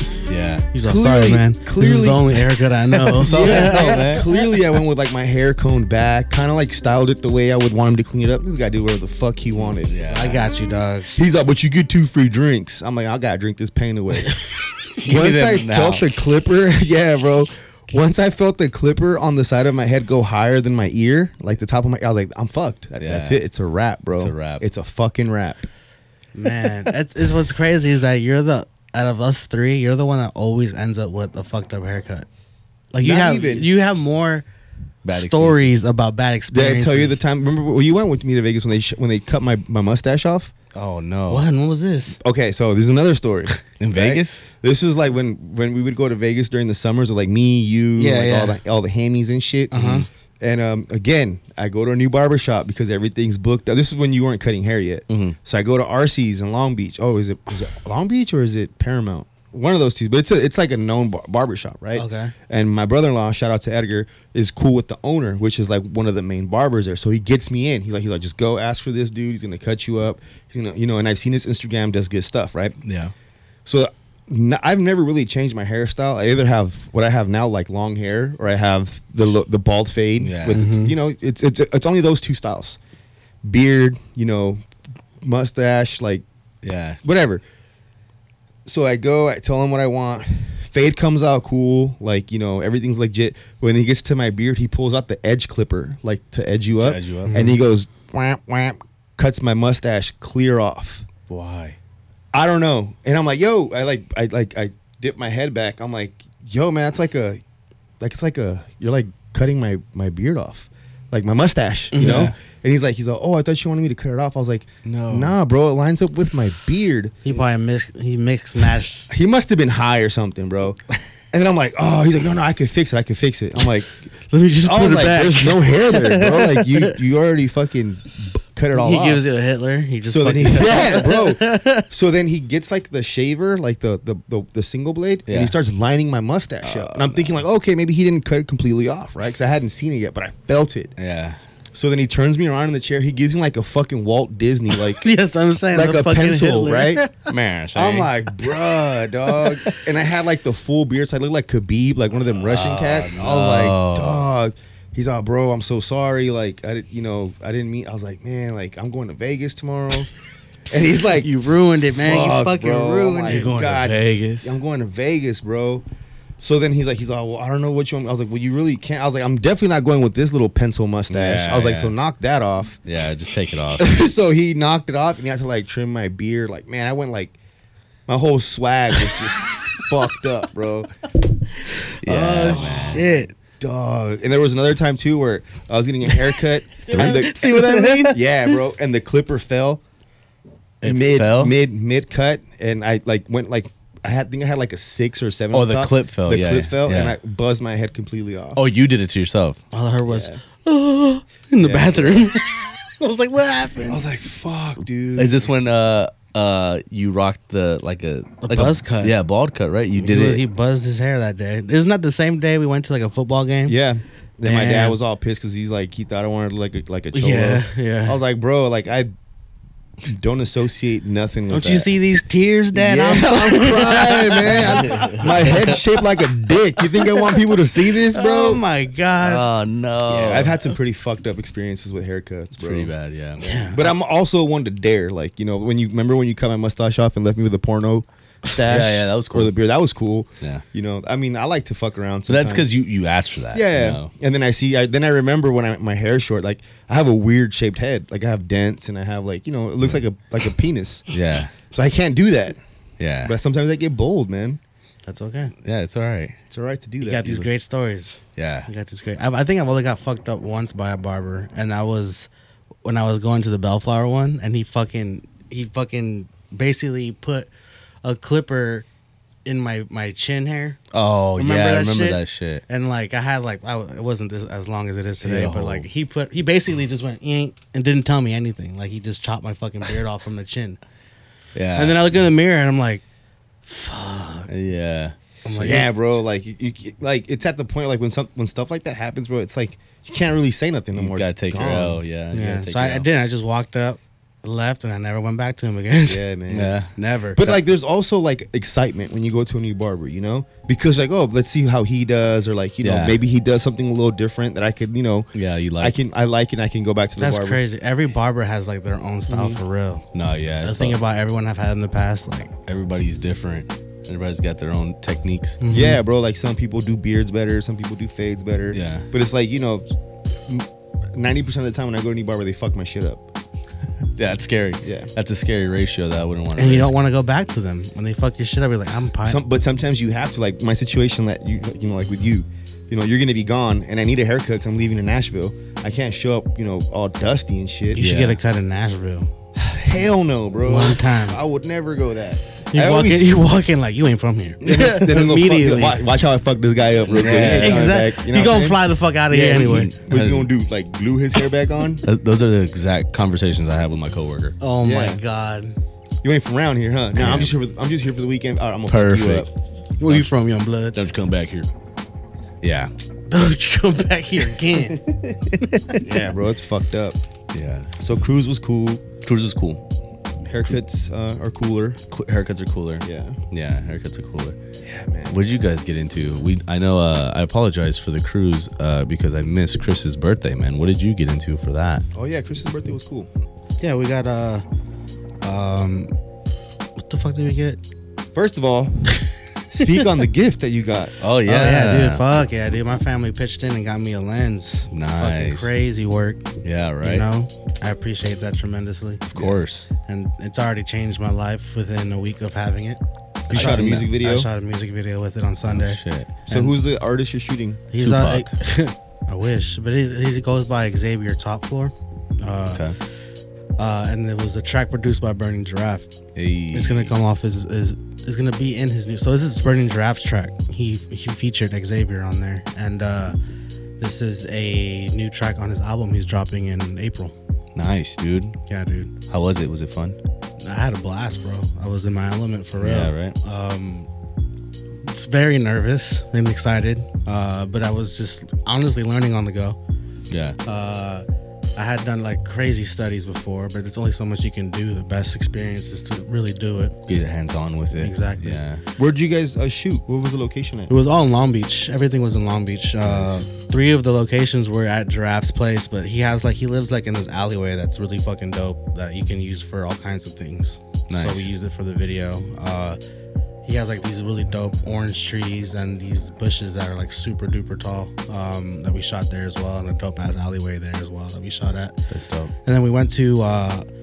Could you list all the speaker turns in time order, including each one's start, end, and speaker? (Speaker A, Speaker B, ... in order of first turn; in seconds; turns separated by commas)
Speaker A: 0.3-0.7, Speaker B: 0.7-4.3, Speaker C: 0.8-2.4, Speaker A: 3.0-4.3, Speaker C: 3.1-9.9, Speaker A: 9.6-10.4, Speaker B: 10.0-11.1, Speaker C: 11.2-14.4, Speaker A: 15.0-16.1, Speaker C: 15.0-25.7, Speaker A: 23.0-23.4, Speaker A: 24.1-24.6, Speaker B: 26.3-32.3, Speaker B: 32.9-34.5, Speaker C: 33.0-33.7, Speaker A: 35.0-35.8, Speaker B: 35.1-37.2, Speaker C: 36.5-40.5, Speaker A: 40.7-41.5, Speaker B: 41.3-42.2, Speaker C: 42.2-72.8, Speaker A: 43.8-44.4, Speaker B: 48.0-48.6, Speaker B: 49.7-50.1, Speaker A: 49.7-50.1, Speaker A: 55.1-55.4, Speaker B: 61.9-62.4, Speaker A: 72.8-73.1, Speaker C: 73.7-82.8, Speaker A: 80.2-80.6, Speaker B: 80.5-80.9, Speaker C: 83.4-84.6, Speaker C: 85.2-86.2, Speaker A: 86.6-87.0, Speaker C: 87.0-87.4, Speaker C: 88.7-101.1, Speaker A: 96.8-97.3, Speaker B: 97.3-97.6, Speaker A: 101.3-101.8, Speaker C: 102.3-107.4, Speaker C: 108.0-117.2, Speaker B: 111.9-112.3, Speaker A: 112.0-112.3, Speaker A: 114.8-115.4, Speaker B: 117.2-119.1, Speaker C: 119.1-120.8, Speaker C: 121.3-129.2, Speaker B: 124.3-127.0, Speaker B: 128.7-131.9, Speaker C: 130.0-140.9, Speaker A: 135.3-135.6, Speaker A: 136.6-137.4, Speaker A: 141.0-141.4, Speaker C: 141.7-145.1, Speaker B: 145.0-147.3, Speaker C: 145.7-147.0, Speaker A: 147.3-148.1, Speaker C: 147.8-160.1, Speaker A: 152.3-154.2, Speaker C: 160.7-165.8, Speaker B: 161.1-163.6, Speaker A: 163.3-164.6, Speaker C: 166.4-172.8, Speaker A: 171.1-171.9, Speaker A: 172.9-173.9, Speaker C: 173.8-177.3, Speaker C: 178.1-180.9, Speaker A: 182.0-183.0, Speaker C: 182.1-189.8, Speaker B: 182.1-183.3, Speaker B: 186.8-188.6, Speaker A: 190.8-191.6, Speaker C: 190.8-198.6, Speaker A: 195.5-197.2, Speaker A: 198.6-199.6, Speaker B: 199.7-204.0, Speaker C: 200.1-200.4, Speaker C: 201.6-202.3, Speaker C: 203.8-205.5, Speaker A: 205.2-210.4, Speaker B: 208.4-209.1, Speaker B: 210.0-213.8, Speaker C: 213.7-219.1, Speaker B: 214.4-215.0, Speaker B: 217.1-218.2, Speaker C: 220.0-221.9, Speaker B: 221.5-226.1, Speaker C: 222.7-228.6, Speaker A: 224.5-225.2, Speaker B: 226.8-227.3, Speaker B: 227.9-229.5, Speaker A: 229.2-230.6, Speaker C: 230.1-232.9, Speaker A: 232.6-233.5, Speaker B: 233.4-233.9, Speaker C: 233.7-242.7, Speaker A: 238.7-239.5, Speaker A: 242.3-244.1, Speaker C: 243.5-251.1, Speaker A: 251.1-251.5, Speaker C: 251.7-252.6, Speaker A: 253.0-253.3, Speaker C: 253.2-254.6, Speaker B: 255.1-255.5, Speaker A: 255.6-256.4, Speaker C: 256.5-257.4, Speaker B: 257.0-262.3, Speaker A: 258.4-258.7, Speaker B: 262.8-267.5, Speaker B: 268.0-268.9, Speaker B: 269.4-270.8, Speaker A: 270.9-272.6, Speaker B: 271.4-280.8, Speaker A: 275.2-275.9, Speaker A: 281.6-282.1, Speaker B: 281.8-283.0, Speaker B: 283.6-284.5, Speaker A: 284.5-285.8, Speaker B: 285.4-285.9, Speaker C: 285.6-292.0, Speaker A: 290.9-293.1, Speaker B: 292.3-296.3, Speaker C: 296.1-296.8, Speaker A: 296.5-296.9, Speaker B: 296.9-297.6, Speaker C: 297.4-307.6, Speaker A: 302.8-303.2, Speaker A: 305.3-306.0, Speaker B: 307.2-310.1, Speaker C: 309.3-309.6, Speaker A: 310.1-311.0, Speaker B: 310.6-312.5, Speaker A: 312.6-315.6, Speaker B: 315.6-316.0, Speaker C: 315.7-319.9, Speaker A: 318.7-319.1, Speaker C: 320.5-323.2, Speaker A: 324.1-326.9, Speaker C: 324.8-325.1, Speaker B: 326.6-329.4, Speaker C: 329.2-338.1, Speaker B: 337.9-339.3, Speaker A: 338.0-338.4, Speaker C: 339.6-343.4, Speaker B: 340.6-341.4, Speaker B: 342.7-346.1, Speaker C: 344.6-348.8, Speaker A: 347.1-348.0, Speaker B: 347.1-349.9, Speaker A: 349.3-350.5, Speaker C: 349.3-352.0, Speaker A: 352.0-354.6, Speaker B: 354.6-355.8, Speaker C: 354.8-355.2, Speaker C: 356.2-359.5, Speaker A: 357.1-357.5, Speaker A: 358.9-359.5, Speaker B: 360.0-361.1, Speaker A: 360.0-360.3, Speaker A: 360.9-361.7, Speaker A: 362.6-362.9, Speaker B: 363.3-365.1, Speaker B: 365.6-366.3, Speaker C: 366.0-367.2, Speaker A: 367.5-367.9, Speaker C: 368.0-369.1, Speaker A: 369.2-369.8, Speaker C: 370.4-372.0, Speaker A: 372.1-374.6, Speaker C: 373.0-373.4, Speaker C: 374.8-375.4, Speaker A: 375.3-382.0, Speaker C: 382.1-383.3, Speaker B: 383.8-384.6, Speaker B: 385.4-386.1, Speaker B: 387.0-387.8, Speaker C: 388.3-389.1, Speaker C: 389.7-391.2, Speaker A: 391.2-392.2, Speaker B: 391.5-396.4, Speaker A: 394.9-395.7, Speaker A: 396.6-397.3, Speaker B: 397.0-399.3, Speaker A: 399.3-399.9, Speaker B: 400.1-406.8, Speaker C: 403.5-404.5, Speaker A: 403.5-404.1, Speaker A: 405.7-406.4, Speaker C: 406.5-407.9, Speaker B: 407.9-412.9, Speaker A: 408.0-408.5, Speaker A: 412.7-412.9, Speaker B: 413.8-416.1, Speaker A: 416.4-417.1, Speaker B: 416.7-423.4, Speaker B: 424.0-427.4, Speaker A: 427.8-428.6, Speaker B: 428.7-429.1, Speaker A: 429.3-430.2, Speaker B: 430.6-434.1, Speaker A: 432.8-433.4, Speaker B: 435.0-439.8, Speaker A: 440.3-440.6, Speaker B: 440.6-447.0, Speaker A: 447.1-448.8, Speaker B: 447.9-448.6, Speaker C: 449.0-450.9, Speaker B: 450.9-463.0, Speaker A: 453.1-453.4, Speaker A: 461.1-461.5, Speaker B: 463.6-472.0, Speaker A: 472.1-472.5, Speaker B: 472.6-473.9